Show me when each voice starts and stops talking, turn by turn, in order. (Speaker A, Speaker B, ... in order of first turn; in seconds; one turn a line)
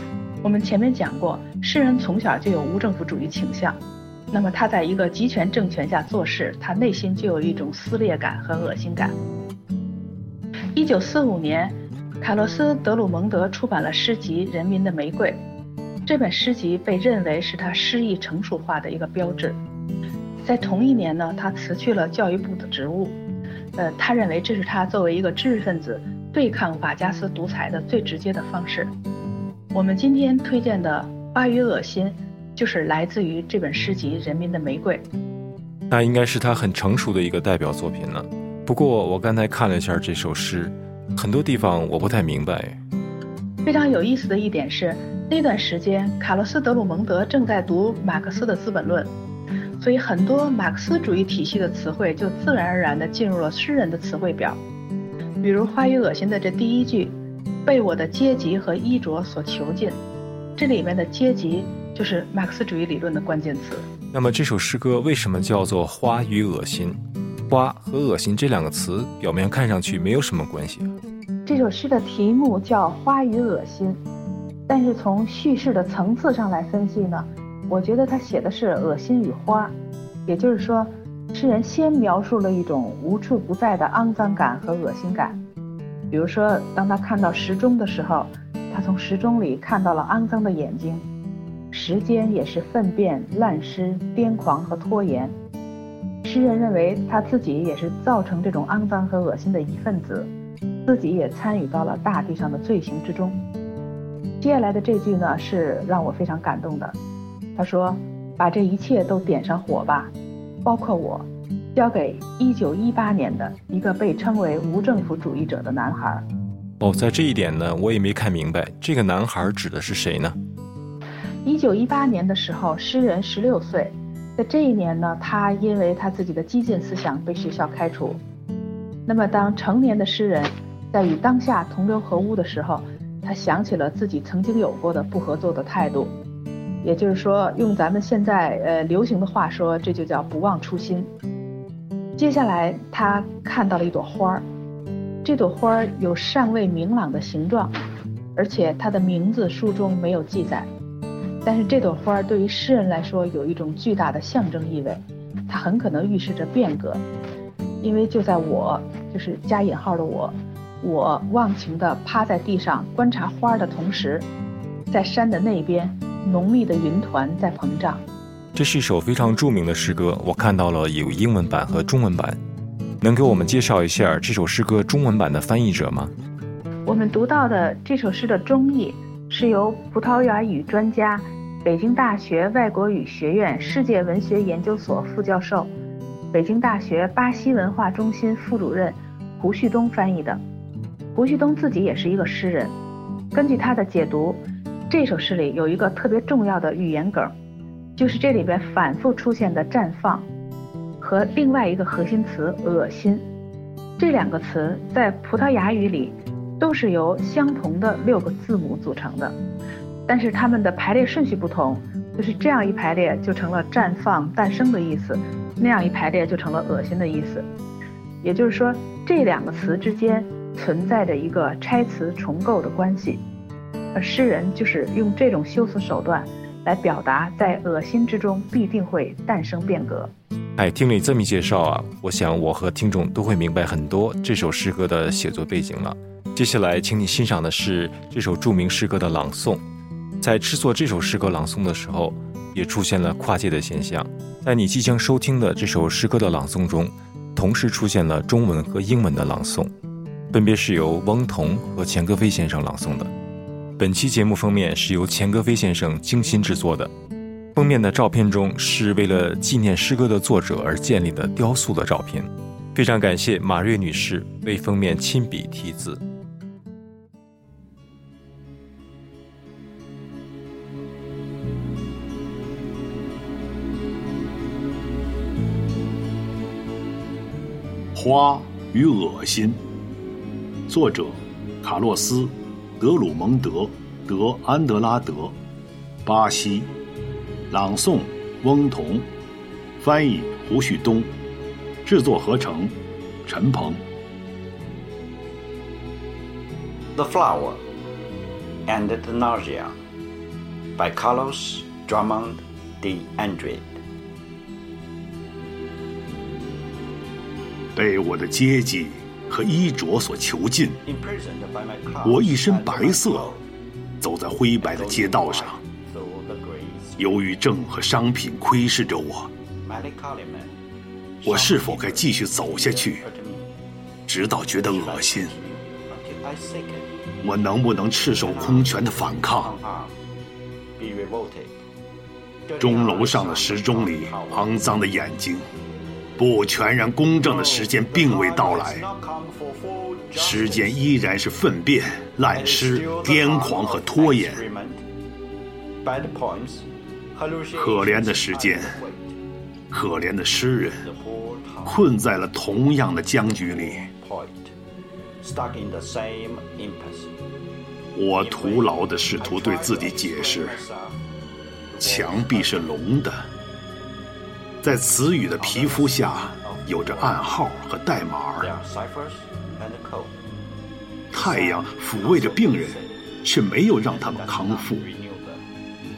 Speaker A: 0.4-3.8
Speaker A: 4.3-9.2
Speaker A: 10.8-15.4
Speaker A: 16.1-19.6
Speaker A: 20.4-23.2
Speaker A: 23.8-28.9
Speaker A: 29.7-35.0
Speaker B: 35.9-42.8
Speaker A: 43.6-49.1
Speaker A: 49.8-54.6
Speaker A: 55.4-60.0
Speaker A: 60.6-63.9
Speaker B: 64.1-70.9
Speaker A: 71.5-74.0
Speaker A: 74.7-79.7
Speaker A: 80.2-85.4
Speaker A: 86.1-91.0
Speaker A: 91.7-95.3
Speaker A: 96.2-100.3
Speaker A: 100.9-103.4
Speaker A: 104.4-106.9
Speaker A: 107.6-110.1
Speaker A: 110.6-116.2
Speaker B: 116.8-120.4
Speaker A: 121.4-128.2
Speaker A: 129.1-136.1
Speaker A: 136.8-141.1
Speaker A: 142.2-144.4
Speaker A: 145.2-147.7
Speaker A: 148.3-150.7
Speaker A: 151.4-157.0
Speaker A: 157.8-164.3
Speaker A: 164.9-168.0
Speaker B: 168.6-172.4
Speaker B: 173.0-176.1
Speaker A: 176.9-185.7
Speaker A: 186.3-190.4
Speaker A: 191.1-192.7
Speaker A: 193.3-197.3
Speaker A: 197.9-200.3
Speaker A: 201.0-203.2
Speaker A: 204.0-209.4
Speaker A: 210.1-217.5
Speaker A: 218.2-223.2
Speaker A: 223.9-230.1
Speaker B: 230.6-239.6
Speaker B: 240.2-249.7
Speaker B: 250.3-253.1
Speaker B: 253.8-256.9
Speaker B: 257.6-266.0
Speaker C: 277.9-279.6
Speaker C: 280.7-285.3
Speaker C: 286.1-286.7
Speaker C: 287.5-289.1
Speaker C: 289.8-291.1
Speaker C: 291.9-292.7
Speaker C: 293.2-293.8
Speaker D: 296.9-297.6
Speaker D: 298.6-299.8
Speaker D: 300.8-303.8
Speaker C: 307.7-310.8
Speaker D: 310.9-313.4
Speaker C: 312.1-313.3
Speaker C: 314.0-315.6
Speaker D: 314.6-317.2
Speaker C: 317.0-319.3
Speaker D: 319.6-320.6
Speaker D: 321.2-323.6
Speaker C: 321.2-323.0
Speaker C: 324.1-325.3
Speaker D: 324.6-326.9
Speaker C: 327.2-329.5
Speaker D: 328.1-329.9
Speaker D: 330.8-331.5
Speaker D: 332.4-334.5
Speaker C: 332.6-335.5
Speaker C: 336.2-338.8
Speaker D: 337.2-340.8
Speaker C: 340.1-344.4
Speaker D: 342.3-344.8
Speaker D: 345.8-349.2
Speaker C: 347.6-348.8
Speaker C: 349.7-350.9
Speaker D: 350.8-351.9
Speaker C: 351.6-353.9
Speaker D: 352.8-354.5
Speaker D: 355.2-357.1
Speaker C: 357.9-360.6
Speaker D: 358.1-361.0
Speaker D: 361.7-362.8
Speaker C: 361.8-363.2
Speaker C: 364.6-368.5
Speaker D: 365.4-367.6
Speaker D: 368.4-370.4
Speaker C: 371.1-374.8
Speaker D: 371.1-375.4